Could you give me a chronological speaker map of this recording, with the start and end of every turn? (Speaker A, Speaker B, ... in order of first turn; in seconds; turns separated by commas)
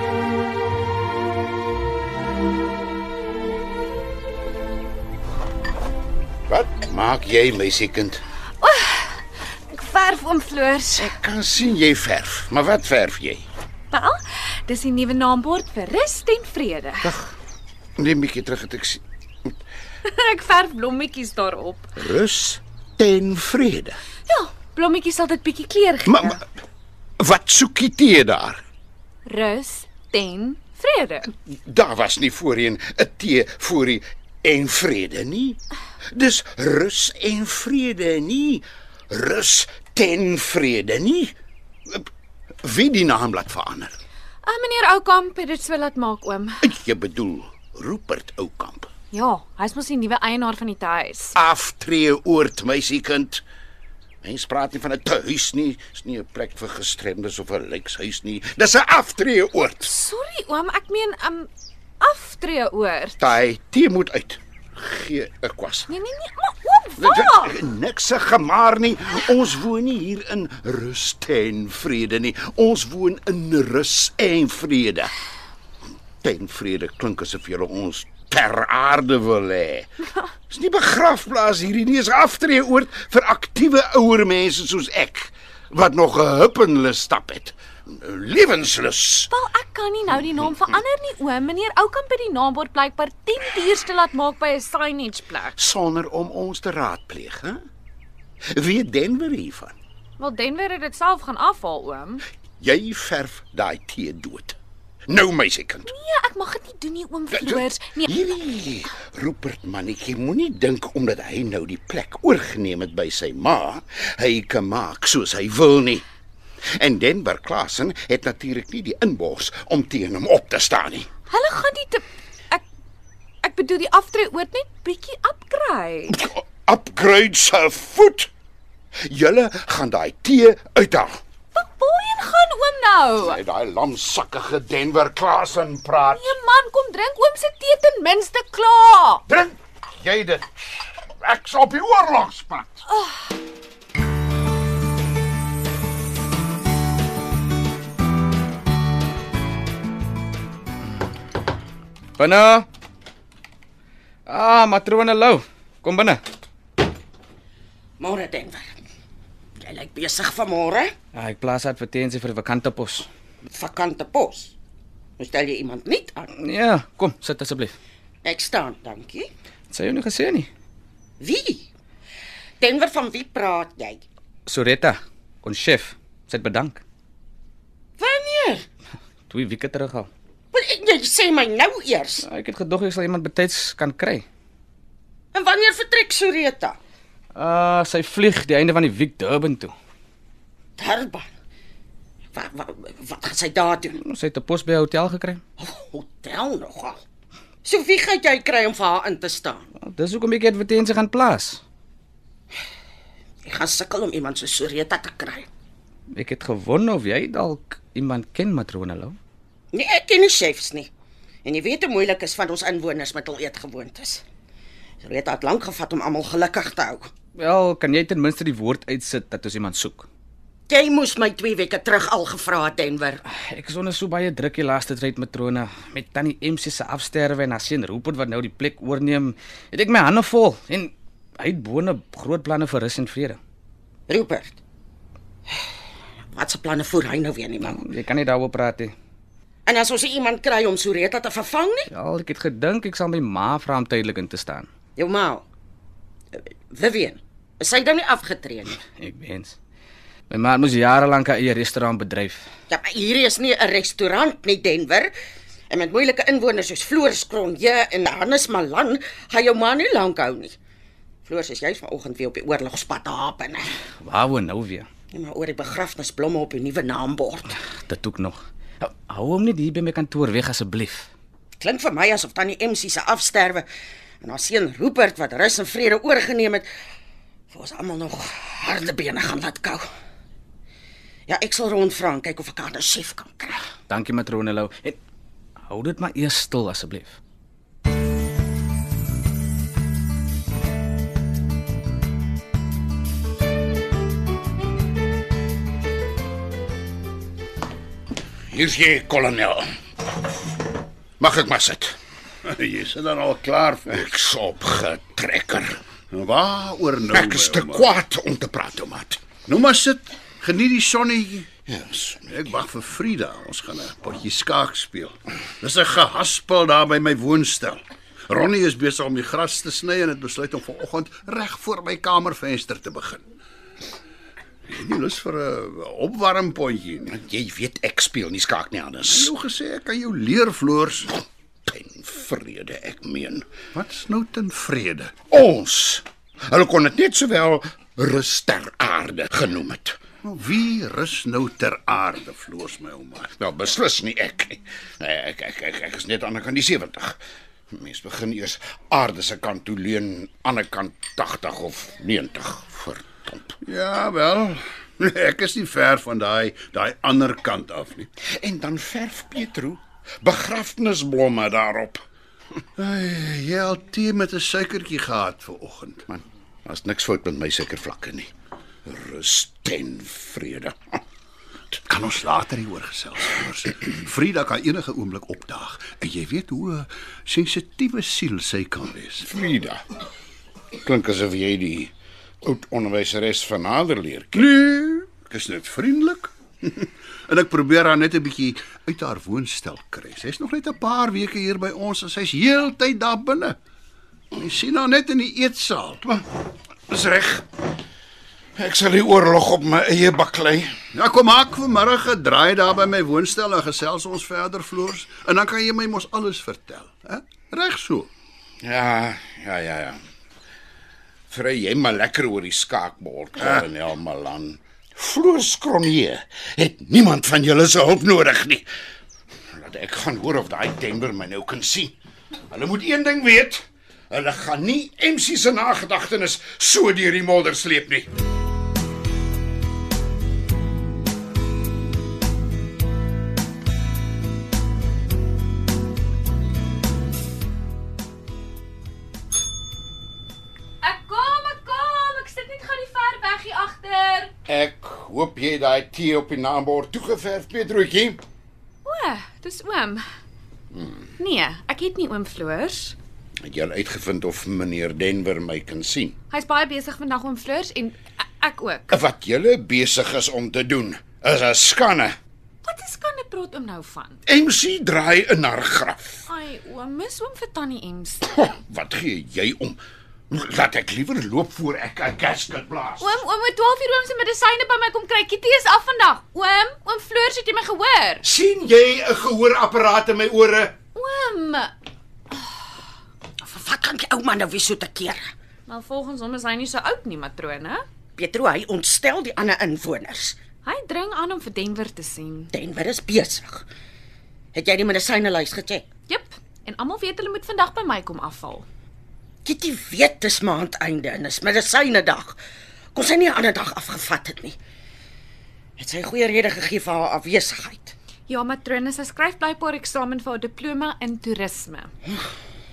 Speaker A: 6.5-8.2, Speaker B: 8.6-11.1, Speaker A: 11.0-13.4, Speaker B: 13.9-17.1, Speaker A: 17.0-17.3, Speaker A: 18.0-19.0, Speaker B: 20.0-21.9, Speaker A: 21.9-24.0, Speaker B: 24.3-26.4, Speaker A: 26.1-26.4, Speaker A: 27.2-28.6, Speaker B: 29.2-31.3, Speaker A: 31.5-35.6, Speaker A: 36.1-41.3, Speaker A: 42.6-44.0, Speaker B: 44.4-46.6, Speaker A: 46.6-48.9, Speaker B: 49.1-51.4, Speaker A: 51.3-53.4, Speaker A: 54.2-59.9, Speaker B: 59.8-63.2, Speaker A: 63.2-65.9, Speaker B: 65.9-67.6, Speaker A: 67.0-75.1, Speaker A: 76.2-79.9, Speaker A: 80.5-89.3, Speaker B: 89.3-95.5, Speaker A: 95.5-97.6, Speaker A: 98.5-99.7, Speaker B: 100.2-102.2, Speaker A: 102.6-104.6, Speaker A: 105.1-105.9, Speaker B: 105.8-108.1, Speaker A: 107.3-116.0, Speaker A: 116.7-121.1, Speaker B: 121.3-122.6, Speaker B: 123.4-126.2, Speaker A: 126.1-128.3, Speaker A: 129.0-131.2, Speaker B: 131.5-133.4, Speaker A: 133.2-136.3, Speaker B: 136.0-139.2, Speaker A: 139.3-142.8, Speaker B: 142.9-143.2, Speaker C: 152.2-152.7, Speaker C: 154.3-156.2, Speaker D: 158.0-158.8, Speaker D: 159.6-160.9, Speaker C: 161.1-163.1, Speaker D: 163.5-164.5, Speaker D: 165.2-166.3, Speaker C: 166.4-167.7, Speaker D: 168.2-169.3, Speaker C: 169.7-170.5, Speaker D: 171.2-171.7, Speaker D: 172.6-174.0, Speaker C: 174.4-176.8, Speaker D: 178.0-178.7, Speaker C: 179.3-180.1, Speaker D: 180.5-182.2, Speaker C: 182.2-184.2, Speaker D: 185.3-186.8, Speaker C: 187.3-189.7, Speaker D: 190.8-191.2, Speaker D: 192.3-194.0, Speaker C: 193.9-195.4, Speaker D: 195.6-197.0, Speaker D: 197.6-199.7, Speaker C: 199.7-201.6, Speaker D: 203.4-205.5, Speaker C: 206.1-209.2, Speaker D: 209.7-210.9, Speaker D: 211.4-214.2, Speaker D: 215.0-217.1, Speaker C: 217.3-220.1, Speaker D: 220.7-223.2, Speaker C: 223.2-233.4, Speaker D: 234.1-234.6, Speaker D: 236.3-237.8, Speaker C: 237.6-238.9, Speaker D: 239.7-241.9, Speaker C: 241.9-244.7, Speaker D: 245.0-245.4, Speaker D: 246.3-248.8, Speaker C: 248.9-249.6, Speaker C: 250.3-252.5, Speaker D: 252.7-255.1, Speaker D: 255.7-260.6, Speaker D: 261.2-263.7, Speaker C: 264.0-264.9, Speaker D: 265.1-267.5, Speaker C: 267.9-271.1, Speaker D: 271.6-273.7, Speaker D: 274.2-276.7, Speaker D: 277.5-279.8, Speaker D: 281.3-283.6, Speaker C: 283.9-285.0, Speaker C: 285.6-287.2, Speaker A: 298.5-299.6, Speaker A: 301.2-302.0, Speaker E: 302.4-304.0, Speaker A: 303.9-305.8, Speaker E: 306.1-307.9, Speaker A: 307.1-309.3, Speaker E: 309.4-311.5, Speaker A: 311.6-312.4, Speaker E: 312.3-323.2, Speaker E: 324.7-327.1, Speaker A: 327.1-329.3, Speaker E: 329.1-331.1, Speaker A: 331.6-333.4, Speaker E: 333.7-335.2, Speaker A: 335.3-340.0, Speaker E: 340.2-343.3, Speaker A: 343.3-347.2, Speaker A: 347.7-353.6, Speaker E: 353.6-358.1, Speaker A: 358.3-362.0, Speaker E: 362.8-366.0, Speaker A: 366.1-368.3, Speaker A: 368.8-371.0, Speaker E: 371.9-379.2, Speaker A: 379.2-379.8, Speaker A: 380.8-381.9, Speaker A: 382.4-384.5, Speaker E: 384.4-393.6, Speaker E: 394.3-396.0, Speaker A: 396.9-397.5, Speaker A: 398.6-400.7, Speaker E: 400.9-408.1, Speaker A: 408.6-410.0, Speaker A: 411.3-418.7, Speaker A: 419.5-421.9, Speaker A: 422.5-428.1, Speaker B: 440.8-444.3, Speaker A: 444.5-448.2, Speaker B: 448.8-450.0, Speaker A: 450.7-451.1, Speaker B: 451.2-452.9, Speaker A: 453.4-456.2, Speaker B: 456.3-458.9, Speaker A: 458.9-462.2, Speaker B: 462.6-464.2, Speaker A: 464.2-466.2, Speaker B: 466.3-468.4, Speaker A: 468.2-473.2, Speaker B: 473.0-478.2, Speaker A: 478.2-480.7, Speaker B: 480.9-481.7, Speaker D: 483.4-485.2, Speaker B: 485.7-487.8, Speaker D: 488.1-490.4, Speaker B: 490.6-492.5, Speaker D: 492.5-493.6, Speaker D: 494.5-495.9, Speaker B: 496.1-498.6, Speaker D: 499.4-502.4, Speaker D: 502.9-504.6, Speaker D: 505.8-507.9, Speaker B: 508.3-511.9